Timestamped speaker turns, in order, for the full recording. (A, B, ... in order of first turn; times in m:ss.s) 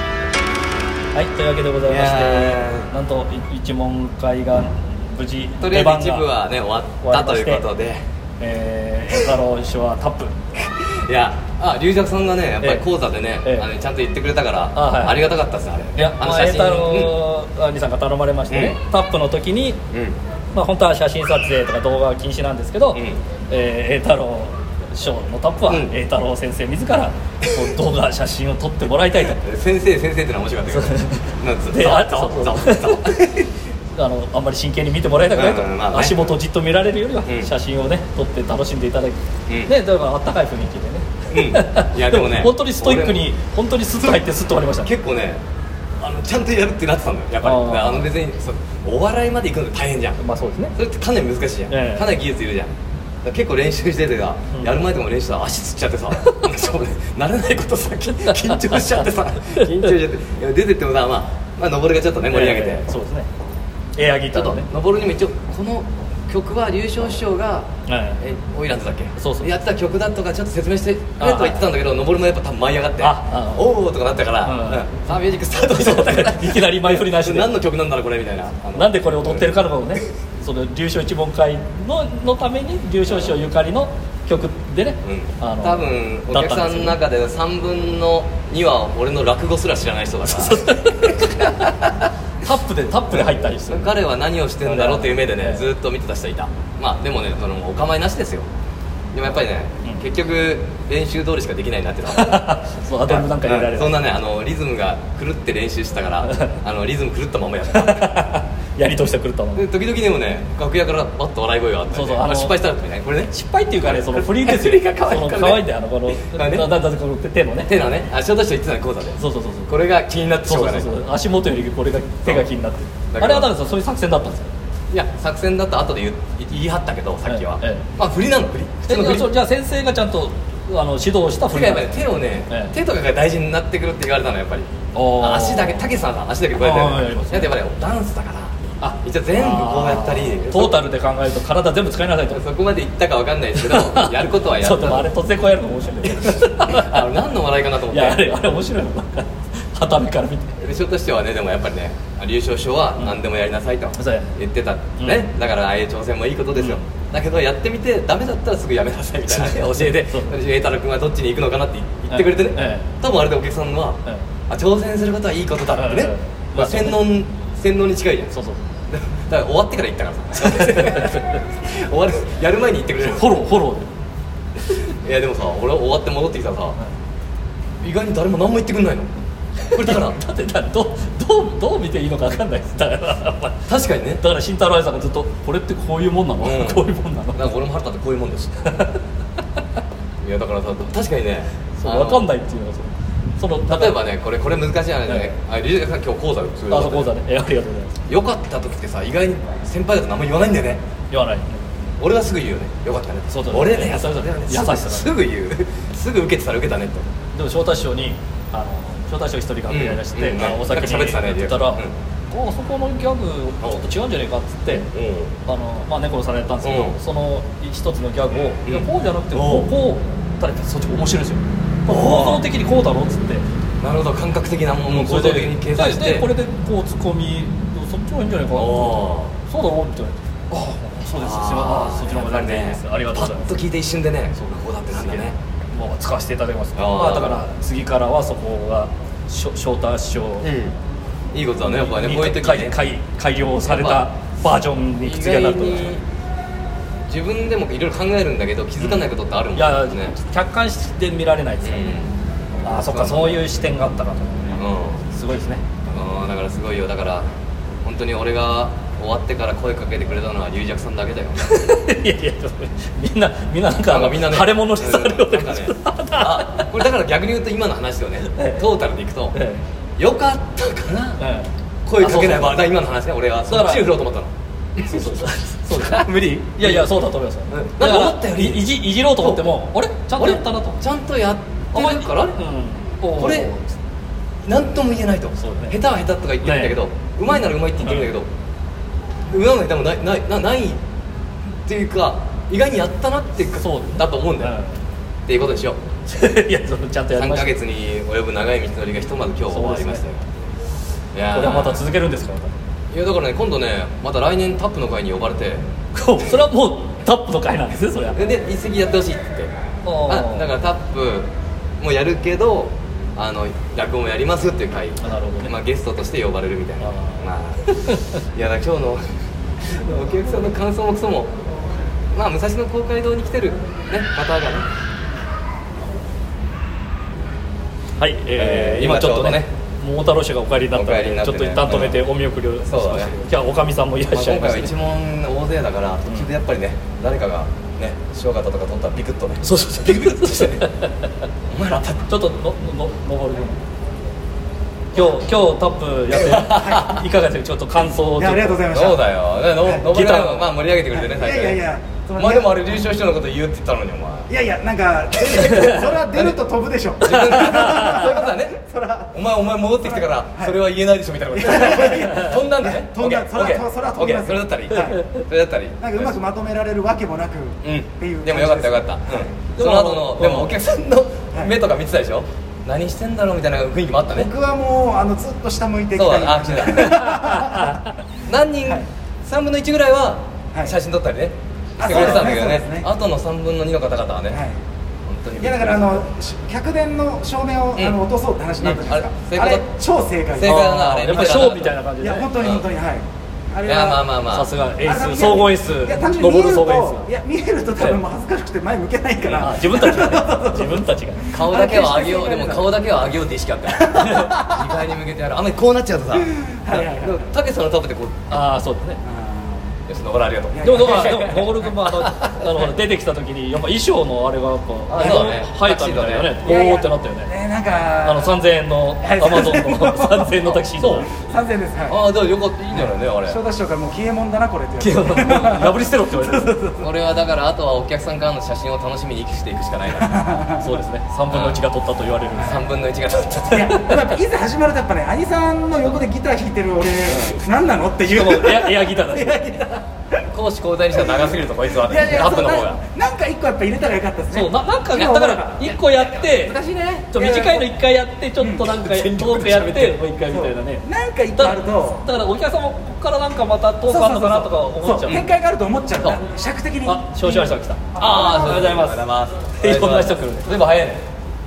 0:01.1-0:06.3 A
0:01.8-0:02.9 B
0:05.6-0:08.0 B
0:07.0-0:07.6 A
0:08.4-0:10.3 A
0:10.6-0:17.2 B
0:12.6-0:12.8 A
0:14.7-0:15.2 A
0:16.0-0:19.8 A
0:18.5-0:18.8 B
0:19.9-0:20.2 B
0:20.5-0:29.4 A
0:22.9-0:23.2 B
0:29.3-0:33.4 B
0:30.7-0:33.4 A
0:34.0-0:44.9 A
0:35.3-0:36.3 B
0:37.2-0:37.5 B
0:39.5-0:39.7 B
0:41.3-0:43.2 B
0:44.8-0:45.4 B
0:46.0-0:50.2 B
0:47.4-0:48.1 A
0:50.2-0:50.7 A
0:50.8-0:52.7 B
0:51.7-0:52.1 A
0:53.2-1:02.9 B
0:58.1-0:59.9 A
1:02.2-1:03.3 A
1:04.0-1:04.7 A
1:04.3-1:07.7 B
1:07.9-1:08.2 A
1:08.2-1:19.5 B
1:09.2-1:09.5 A
1:11.2-1:11.7 A
1:13.0-1:13.7 A
1:14.4-1:14.9 A
1:15.6-1:17.6 A
1:18.8-1:27.0 A
1:23.1-1:23.4 B
1:25.0-1:30.6 B
1:30.3-1:34.0 A
1:33.1-1:38.5 B
1:34.6-1:35.7 A
1:39.1-1:42.5 B
1:42.1-1:44.0 A
1:43.1-1:48.2 B
1:46.2-1:46.6 A
1:47.7-1:49.7 A
1:49.6-1:53.3 B
1:51.9-1:52.6 A
1:53.3-1:57.7 A
1:53.9-1:56.7 B
1:57.6-2:00.9 B
1:59.2-1:59.7 A
2:00.4-2:04.5 A
2:03.1-2:03.5 B
2:04.9-2:09.3 B
2:07.3-2:07.8 A
2:08.9-2:12.7 A
2:11.5-2:20.8 B
2:14.9-2:15.9 A
2:16.6-2:17.5 A
2:18.8-2:22.4 A
2:22.3-2:25.1 B
2:23.6-2:27.1 A
2:26.7-2:28.4 B
2:27.9-2:30.6 A
2:30.6-2:48.3 B
2:34.0-2:34.3 A
2:35.0-2:35.3 A
2:36.6-2:36.9 A
2:39.3-2:40.3 A
2:42.1-2:42.9 A
2:45.7-2:47.1 A
2:48.3-2:48.6 A
2:48.9-2:53.4 B
2:50.4-2:51.3 A
2:53.0-2:53.9 A
2:54.8-2:56.8 B
2:57.8-2:59.1 B
2:59.7-3:03.6 A
2:59.7-3:00.2 B
3:03.7-3:04.2 B
3:04.2-3:07.5 A
3:06.4-3:08.7 B
3:08.6-3:09.0 A
3:10.2-3:12.3 B
3:11.8-3:14.0 A
3:13.7-3:17.1 B
3:15.1-3:15.3 A
3:16.7-3:17.9 A
3:18.1-3:20.8 B
3:21.1-3:21.7 A
3:22.0-3:27.1 B
3:23.3-3:25.1 A
3:27.3-3:34.9 A
3:29.7-3:31.9 B
3:34.7-3:35.3 B
3:35.5-3:43.4 A
3:36.6-3:37.0 B
3:38.7-3:39.7 B
3:41.9-3:42.4 B
3:43.8-3:46.3 B
3:44.9-3:53.6 A
3:48.5-3:49.3 B
3:51.1-3:55.4 B
3:55.0-4:00.5 A
3:56.8-3:57.4 B
4:00.4-4:00.8 B
4:01.3-4:02.7 B
4:01.8-4:06.0 A
4:03.6-4:04.1 B
4:05.0-4:06.0 B
4:07.1-4:10.2 B
4:08.8-4:12.0 A
4:11.6-4:12.1 B
4:12.6-4:15.6 A
4:12.7-4:13.4 B
4:14.6-4:15.0 B
4:15.9-4:17.3 B
4:17.8-4:21.5 B
4:21.4-4:26.7 A
4:23.9-4:29.4 B
4:28.4-4:28.6 A
4:29.3-4:29.6 A
4:30.0-4:31.2 B
4:31.2-4:32.7 A
4:31.9-4:35.2 B
4:33.5-4:33.9 A
4:34.8-4:40.8 A
4:35.7-4:37.0 B
4:37.5-4:39.5 B
4:40.2-4:42.4 B
4:41.7-4:43.8 A
4:43.2-4:43.5 B
4:44.5-4:48.3 B
4:45.4-4:45.8 A
4:46.4-4:46.8 A
4:47.8-4:48.1 A
4:49.3-4:50.8 B
4:51.7-4:54.5 B
4:53.6-4:54.8 A
4:55.3-4:55.8 B
4:56.1-4:57.6 A
4:57.1-5:00.2 B
4:59.5-5:00.0 A
5:01.1-5:01.8 B
5:01.3-5:02.5 A
5:02.9-5:05.6 B
5:05.9-5:08.2 A
5:08.1-5:09.5 B
5:09.8-5:10.5 A
5:10.1-5:17.7 B
5:15.0-5:15.5 A
5:16.8-5:18.2 A
5:18.3-5:19.0 B
5:19.6-5:21.3 B
5:22.1-5:24.7 B
5:28.0-5:34.7 A
5:28.4-5:29.5 B
5:30.7-5:32.0 B
5:32.6-5:33.2 B
5:34.1-5:40.6 B
5:39.4-5:40.9 A
5:41.5-5:42.0 B
5:42.1-5:43.6 A
5:44.9-5:48.6 A
5:46.3-5:46.9 C
5:46.4-5:46.7 B
5:48.1-5:49.0 C
5:48.7-5:51.6 B
5:49.6-5:49.9 C
5:49.9-5:50.5 A
5:50.9-5:52.7 C
5:52.2-5:54.3 B
5:54.3-6:00.6 C
5:57.0-6:06.1 B
5:57.1-5:58.0 A
6:01.3-6:05.0 C
6:05.8-6:09.3 C
6:07.6-6:14.3 B
6:09.6-6:10.5 A
6:14.1-6:17.8 C
6:16.0-6:17.2 B
6:17.2-6:17.9 A
6:18.3-6:24.4 B
6:21.8-6:22.9 C
6:24.3-6:24.6 C
6:25.1-6:26.0 B
6:25.4-6:31.4 C
6:28.6-6:29.7 B
6:30.3-6:31.8 B
6:30.7-6:32.3 A
6:32.0-6:34.0 C
6:32.4-6:32.7 B
6:33.6-6:34.5 B
6:34.3-6:37.1 A
6:34.8-6:42.8 C
6:39.2-6:39.5 B
6:39.3-6:41.3 A
6:41.3-6:48.3 B
6:43.7-6:44.7 C
6:44.0-6:44.3 A
6:46.2-6:47.2 C
6:48.3-6:49.0 A
6:49.0-6:49.8 C
6:49.9-6:51.3 B
6:50.5-6:51.5 C
6:50.6-6:57.3 A
6:54.9-6:56.4 B
6:55.0-6:55.3 C
6:56.4-6:58.4 C
6:58.0-7:01.1 A
6:59.0-7:02.0 C
7:01.9-7:03.4 B
7:02.7-7:05.8 C
7:04.8-7:06.9 A
7:06.8-7:10.3 B
7:10.0-7:10.8 C
7:10.6-7:12.7 A
7:11.3-7:11.6 B
7:12.4-7:13.7 B
7:13.3-7:19.8 C
7:13.5-7:14.1 A
7:18.1-7:19.6 A
7:20.3-7:22.8 B
7:21.0-7:26.0 C
7:24.3-7:26.6 A
7:25.7-7:27.1 B
7:27.1-7:30.8 A
7:27.1-7:27.7 C
7:28.4-7:29.5 C
7:29.2-7:30.0 B
7:30.2-7:32.1 C
7:31.4-7:35.2 A
7:33.9-7:38.8 C
7:36.8-7:39.0 A
7:38.0-7:41.0 B
7:39.6-7:40.6 A